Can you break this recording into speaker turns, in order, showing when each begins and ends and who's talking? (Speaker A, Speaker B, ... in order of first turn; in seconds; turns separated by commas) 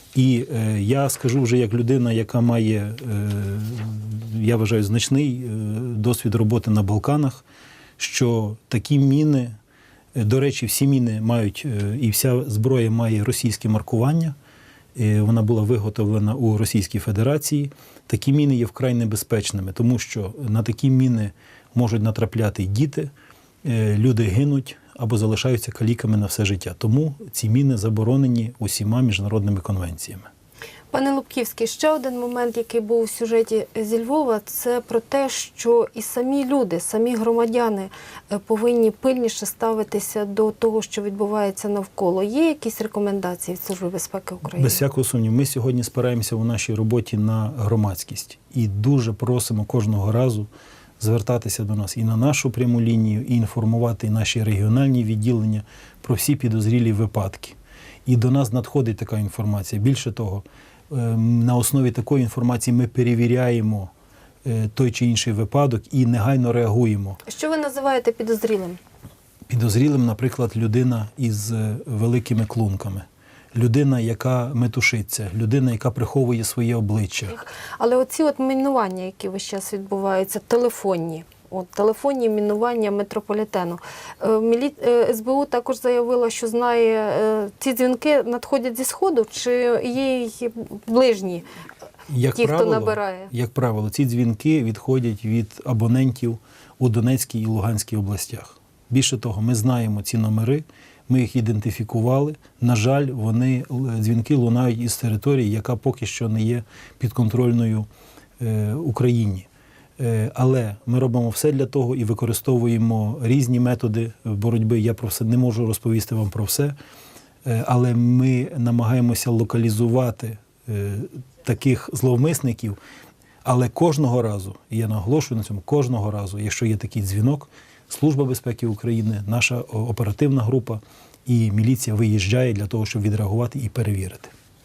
Speaker A: 0.1-7.4, Speaker A: 8.0-9.6, Speaker A: 10.2-14.4, Speaker A: 15.0-23.1, Speaker A: 23.6-30.3, Speaker B: 30.9-44.8, Speaker A: 44.5-50.5, Speaker A: 51.0-63.9, Speaker A: 64.4-67.2, Speaker B: 67.2-68.8, Speaker A: 69.5-77.4, Speaker B: 77.3-91.5, Speaker A: 92.1-107.9, Speaker B: 92.3-93.3, Speaker A: 108.4-109.5, Speaker A: 110.0-116.8, Speaker A: 117.5-122.8, Speaker A: 123.5-134.3